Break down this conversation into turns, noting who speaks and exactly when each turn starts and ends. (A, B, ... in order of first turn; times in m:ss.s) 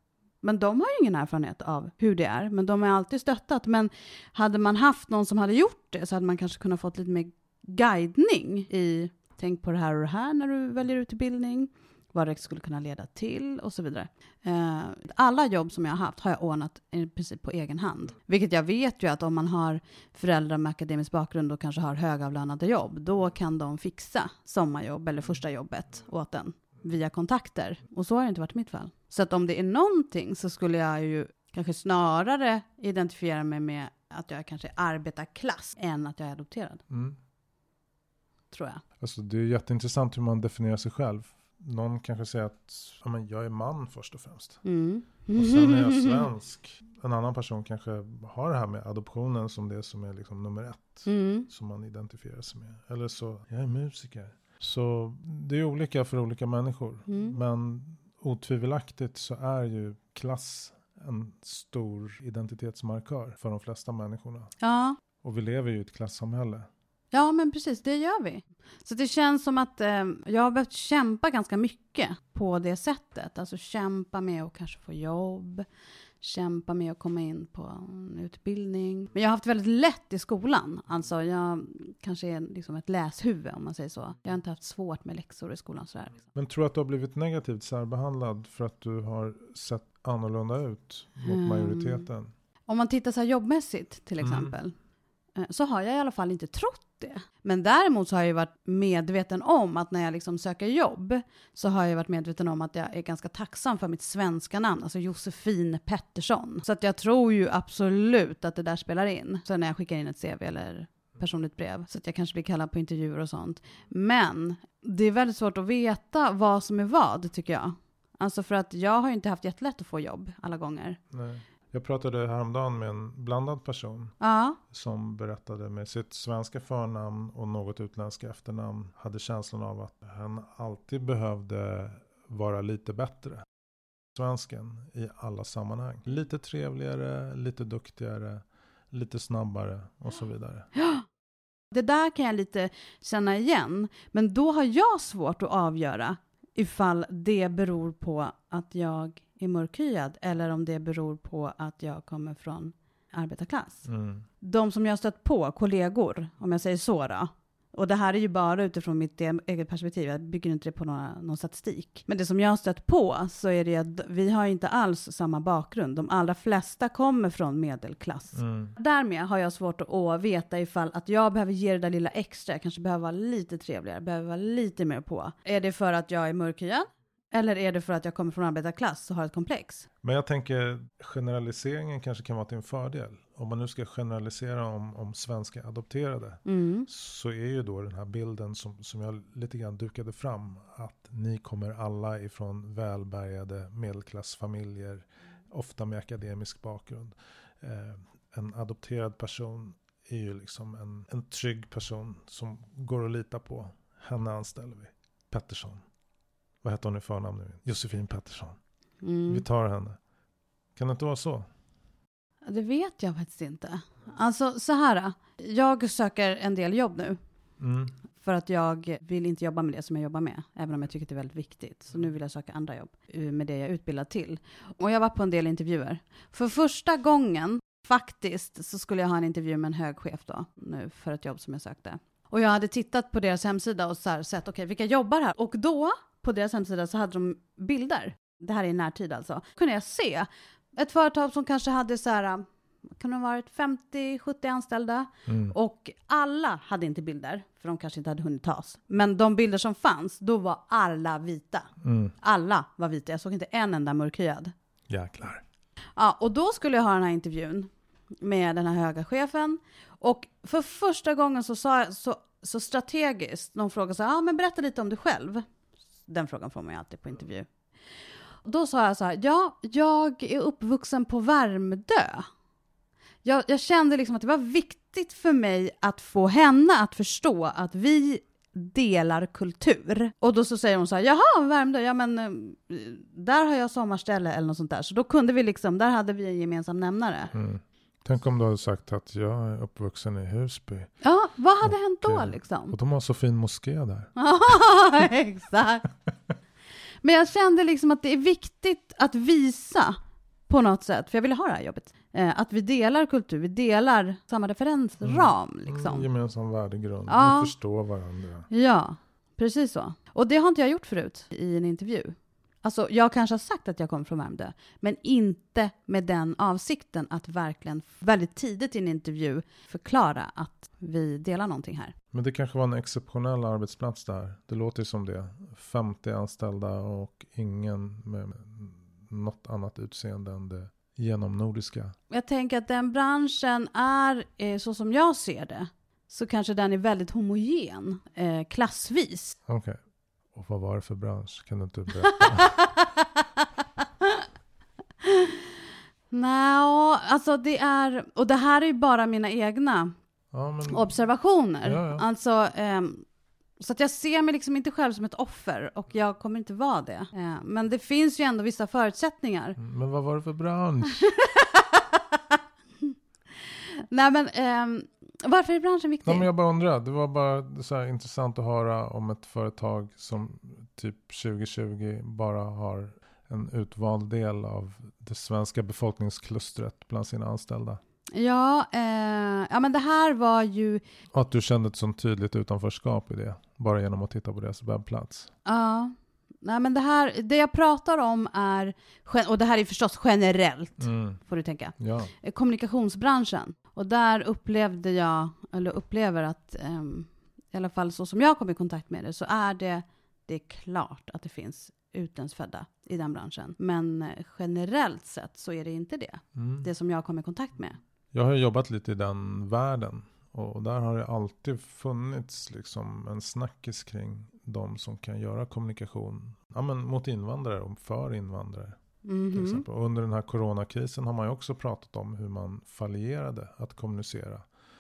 0:00.4-0:36.8 A
0:36.9-0:37.2 B
0:38.5-0:38.8 A
0:39.0-0:44.6 B
0:44.6-0:46.3 A
0:45.4-1:04.5 B
0:51.1-0:51.5 A
0:57.1-0:57.4 A
1:04.6-1:05.0 A
1:05.2-1:06.7 B
1:07.1-1:15.7 A
1:16.2-1:26.2 A
1:26.3-1:32.3 B
1:31.3-1:32.1 A
1:32.7-1:34.8 A
1:34.2-1:34.5 B
1:35.4-2:01.0 A
2:01.1-2:04.2 B
2:04.2-2:04.6 A
2:04.7-2:13.5 B
2:14.2-2:20.7 B
2:20.8-2:21.0 A
2:21.7-2:33.9 A
2:33.8-2:34.2 B
2:34.4-2:59.9 A
2:48.3-2:48.7 B
3:00.0-3:25.8 B
3:06.5-3:06.9 A
3:26.6-3:28.6 B
3:29.0-3:29.4 A
3:29.3-3:30.0 B
3:30.8-3:31.5 B
3:32.5-3:37.2 A
3:37.6-3:37.9 B
3:38.2-4:02.5 A
4:03.0-4:11.7 A
4:05.3-4:05.6 B
4:11.8-4:12.2 B
4:12.2-4:14.5 A
4:14.9-4:15.4 B
4:16.0-4:17.7 A
4:18.2-4:25.4 A
4:26.1-4:27.5 A
4:28.4-4:32.3 A
4:33.2-4:47.3 A
4:47.3-4:50.9 B
4:51.0-4:52.8 A
4:51.6-4:54.1 B
4:54.2-4:55.9 A
4:57.0-5:00.0 A
5:00.5-5:06.1 A
5:05.0-5:08.5 B
5:07.1-5:07.5 A
5:08.5-5:22.0 A
5:22.1-5:31.9 B
5:32.1-5:39.4 A
5:39.5-5:39.8 B
5:40.3-5:42.6 B
5:42.1-5:44.2 A
5:45.0-5:45.4 A
5:46.1-5:49.9 A
5:50.3-5:50.9 B
5:50.7-5:53.0 A
5:51.6-5:52.0 B
5:53.6-5:59.6 A
5:59.6-6:01.1 B
6:01.0-6:02.9 A
6:03.8-6:06.3 A
6:06.0-6:17.8 B
6:18.1-6:20.8 A
6:21.1-6:25.3 B
6:25.5-6:47.8 A
6:30.8-6:31.2 B
6:31.8-6:32.1 B
6:46.4-6:46.7 B
6:48.1-6:58.8 B
6:59.0-6:59.6 A
6:59.3-7:04.5 B